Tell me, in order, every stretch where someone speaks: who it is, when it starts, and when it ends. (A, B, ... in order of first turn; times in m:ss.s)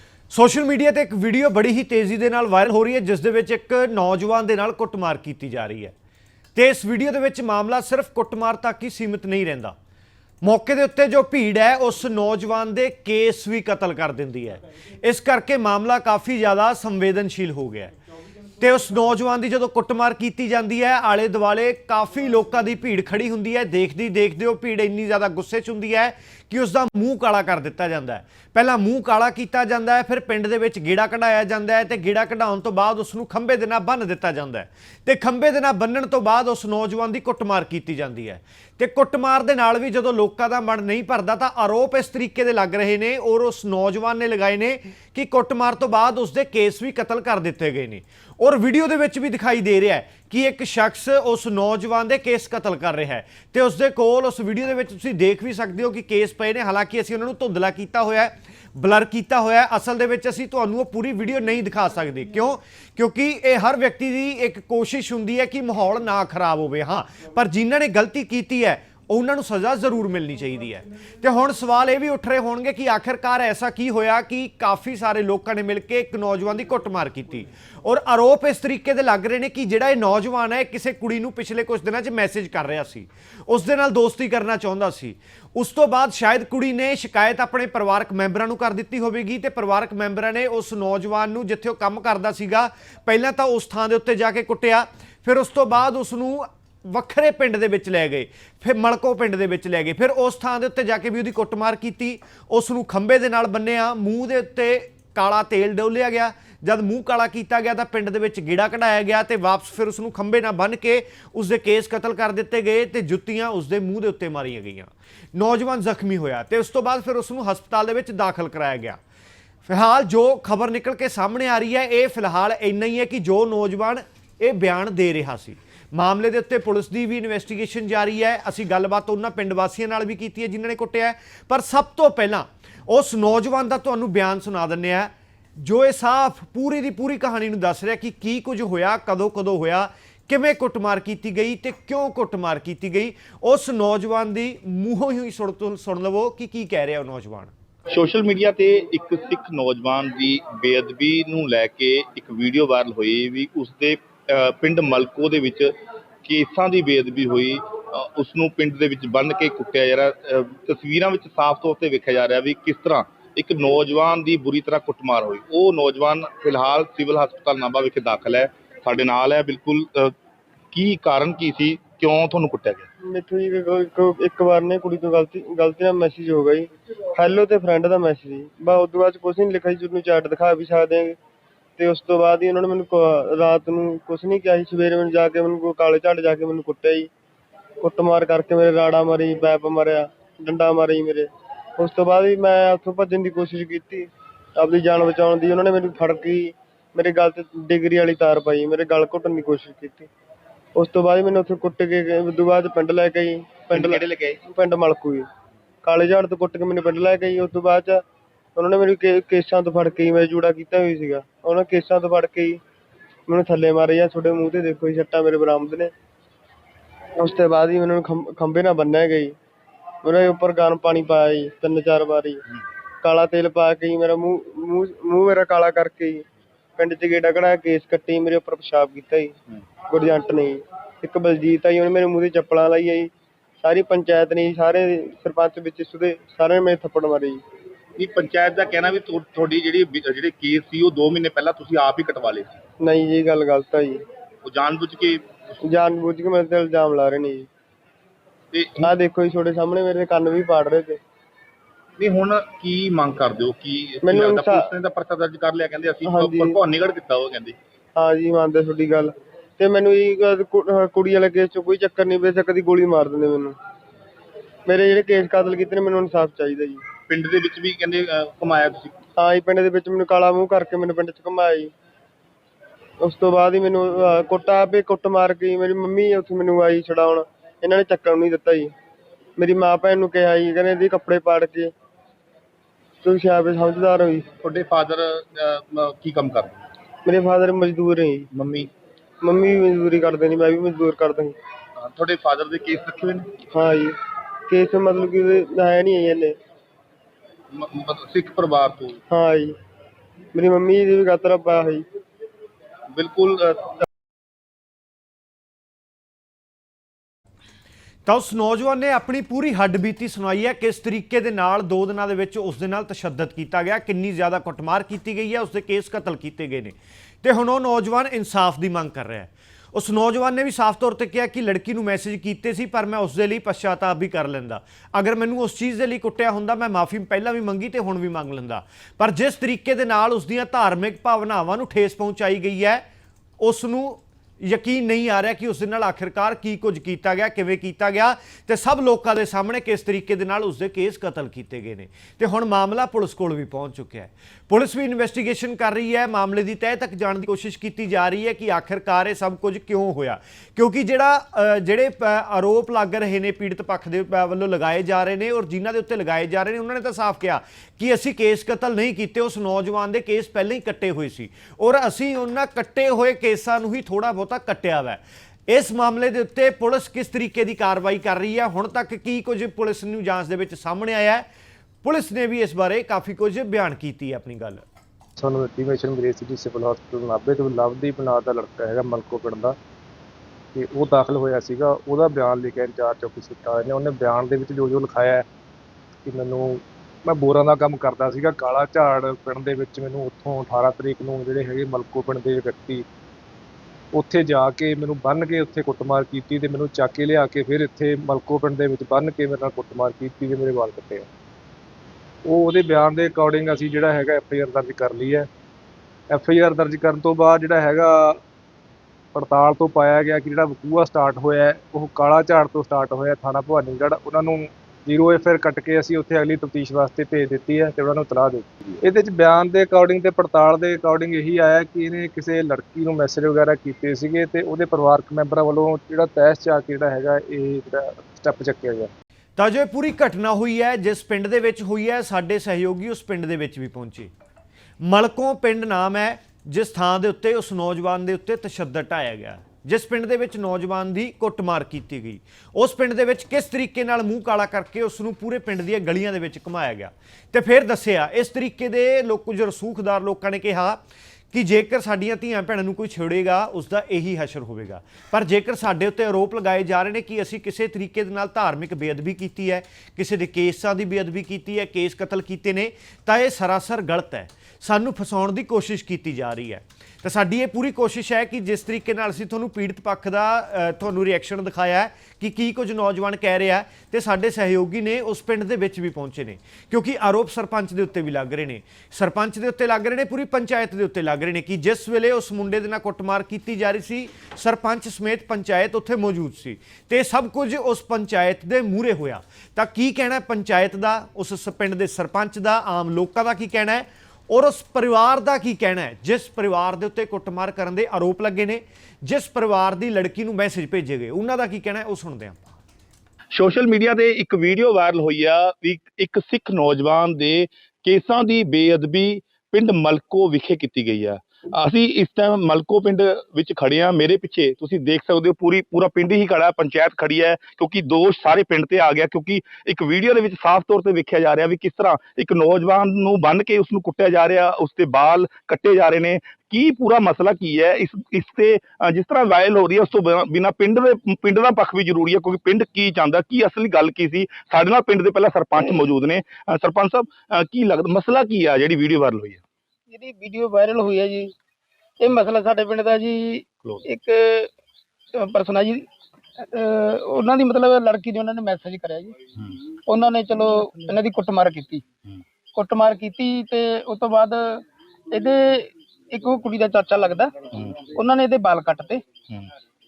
0:00.3-0:05.9 A
0:06.5-0:09.7 A
0:10.4-0:17.9 A
0:18.6-1:59.0 A
1:59.7-2:27.5 A
2:27.9-2:35.7 B
2:36.2-2:50.1 B
2:50.7-2:52.9 B
2:53.0-3:01.2 C
3:01.8-3:07.1 C
3:07.8-3:20.1 C
3:20.8-3:25.2 C
3:23.7-3:24.4 B
3:25.8-3:28.0 C
3:28.6-3:32.6 C
3:33.3-3:35.9 C
3:37.2-3:39.3 C
3:40.0-3:42.4 C
3:43.0-3:46.2 C
3:46.8-3:49.3 C
3:49.9-3:57.4 C
3:58.0-4:02.6 B
4:02.8-4:04.0 C
4:04.4-4:05.6 B
4:05.6-4:07.5 C
4:08.5-4:08.9 B
4:08.8-4:11.0 C
4:12.0-4:17.6 B
4:14.0-4:14.7 C
4:16.0-4:16.6 C
4:18.0-4:23.5 C
4:24.7-4:26.8 C
4:27.1-4:29.0 B
4:29.2-4:31.7 C
4:33.0-4:38.7 C
4:39.4-4:41.7 C
4:43.0-4:44.2 C
4:44.4-4:46.7 B
4:47.0-4:48.3 C
4:48.3-4:48.7 B
4:49.2-4:51.3 C
4:51.8-4:53.3 B
4:53.5-4:54.0 C
4:54.5-4:56.3 C
4:57.5-4:59.0 B
4:59.1-4:59.6 C
5:00.3-5:01.8 C
5:02.9-5:03.8 B
5:08.0-5:32.8 A
5:33.4-6:11.2 A
6:11.8-6:14.6 A
6:15.2-6:19.6 D
6:20.5-6:25.2 D
6:26.0-6:32.8 D
6:33.9-6:41.1 D
6:42.2-6:45.3 D
6:46.1-6:48.2 D
6:49.1-7:08.9 D
7:09.4-7:14.1 A
7:14.8-7:30.8 A
7:31.3-8:22.6 A
8:23.3-8:59.4 B
8:59.9-9:01.3 E
9:02.0-9:04.5 E
9:05.1-9:05.8 E
9:06.4-9:09.2 E
9:09.9-9:11.8 E
9:12.5-9:19.0 E